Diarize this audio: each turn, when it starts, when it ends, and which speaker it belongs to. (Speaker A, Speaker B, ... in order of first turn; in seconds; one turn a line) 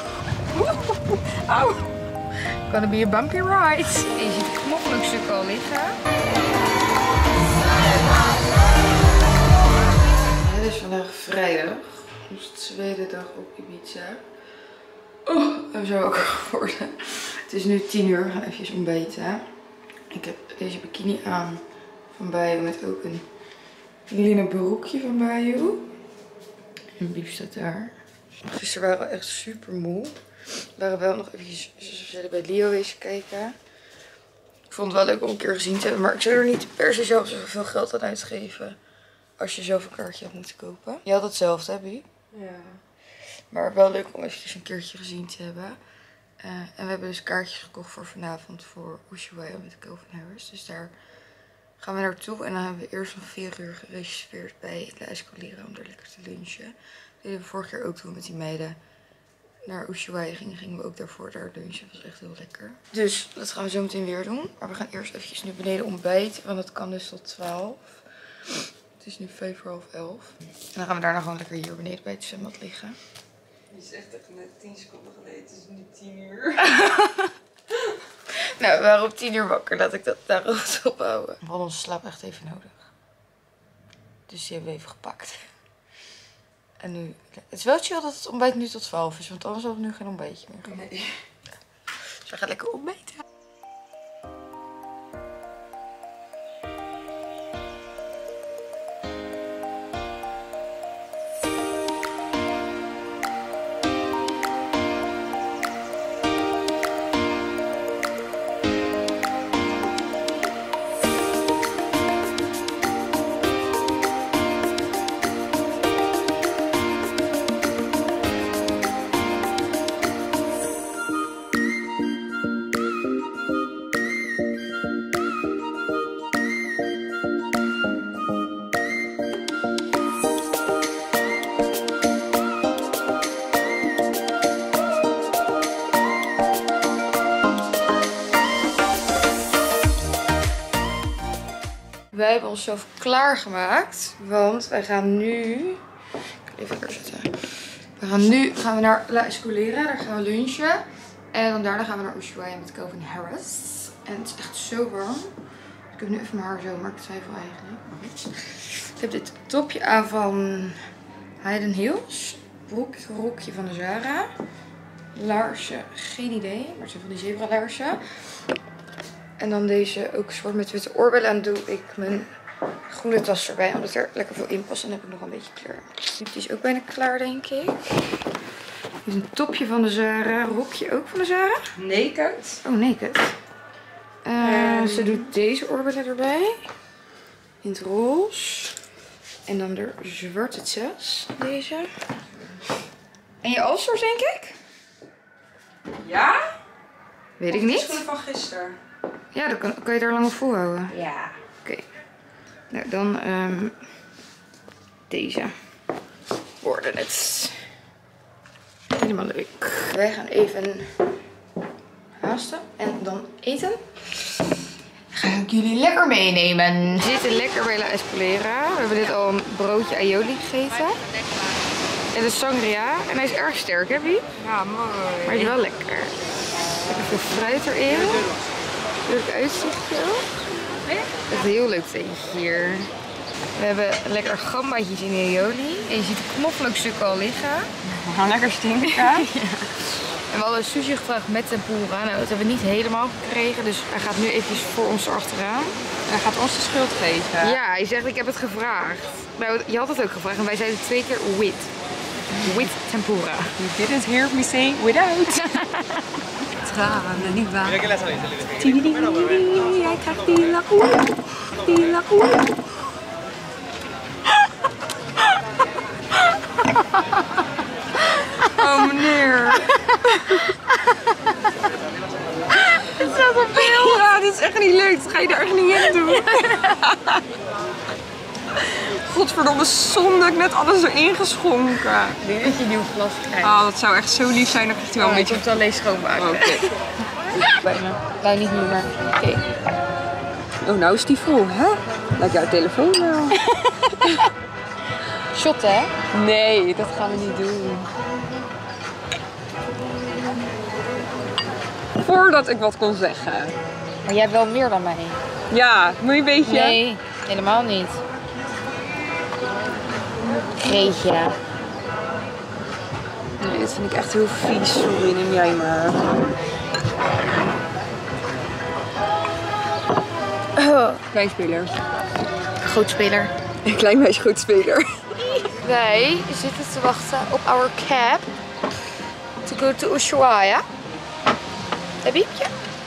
Speaker A: 0.5-1.9
Speaker B: 2.7-6.0
Speaker B: 10.4-14.2
Speaker B: 15.2-19.5
Speaker B: 20.1-23.3
Speaker B: 24.1-25.9
Speaker B: 27.0-30.2
Speaker B: 30.8-33.6
Speaker B: 34.7-38.8
Speaker B: 39.4-42.1
Speaker A: 42.3-42.8
Speaker B: 43.5-45.8
Speaker B: 46.4-51.0
Speaker B: 51.8-58.8
Speaker B: 59.6-68.0
Speaker B: 69.0-73.0
Speaker A: 73.7-76.8
Speaker B: 76.6-77.3
Speaker B: 78.3-82.9
Speaker B: 84.3-85.5
Speaker B: 86.8-90.9
Speaker A: 90.7-91.1
Speaker B: 92.2-93.2
Speaker B: 142.1-145.8
Speaker B: 146.5-155.3
Speaker B: 155.9-160.9
Speaker B: 161.4-164.3
Speaker B: 165.1-168.0
Speaker B: 169.4-172.3
Speaker B: 172.9-177.8
Speaker B: 179.0-181.7
Speaker A: 181.8-182.6
Speaker B: 182.6-183.3
Speaker B: 184.2-186.7
Speaker A: 184.4-185.3
Speaker B: 187.6-188.8
Speaker B: 189.5-191.9
Speaker B: 193.4-194.6
Speaker A: 196.0-196.5
Speaker B: 197.4-198.0
Speaker A: 197.5-198.8
Speaker B: 199.3-200.9
Speaker A: 200.9-201.4
Speaker B: 202.7-203.8
Speaker B: 205.1-205.5
Speaker B: 206.6-207.6
Speaker B: 208.9-210.9
Speaker B: 212.2-214.6
Speaker B: 215.1-221.0
Speaker B: 222.1-224.3
Speaker A: 224.4-225.6
Speaker B: 225.2-226.2
Speaker B: 226.8-228.3
Speaker B: 229.1-230.3
Speaker B: 231.2-232.9
Speaker B: 233.6-237.7
Speaker A: 237.8-239.4
Speaker B: 238.8-245.8
Speaker A: 246.1-247.6
Speaker B: 247.4-251.7
Speaker A: 252.3-252.7
Speaker B: 252.3-253.6
Speaker A: 253.6-255.6
Speaker B: 255.4-256.0
Speaker A: 256.6-262.6
Speaker B: 268.4-270.6
Speaker A: 268.4-270.5
Speaker A: 272.9-277.2
Speaker B: 272.9-273.9
Speaker A: 278.6-282.2
Speaker B: 282.2-283.6
Speaker A: 283.4-285.5
Speaker B: 285.0-286.7
Speaker A: 286.2-286.7
Speaker B: 287.4-289.4
Speaker A: 290.6-293.4
Speaker A: 294.0-294.2
Speaker B: 295.3-295.9
Speaker A: 296.1-297.9
Speaker A: 302.0-303.6
Speaker B: 304.1-305.2
Speaker A: 305.5-306.8
Speaker B: 306.4-308.0
Speaker B: 310.6-311.4
Speaker A: 313.4-316.1
Speaker A: 320.6-321.7
Speaker B: 322.6-323.3
Speaker A: 323.6-325.1
Speaker B: 325.4-328.3
Speaker B: 329.4-330.7
Speaker B: 332.0-332.5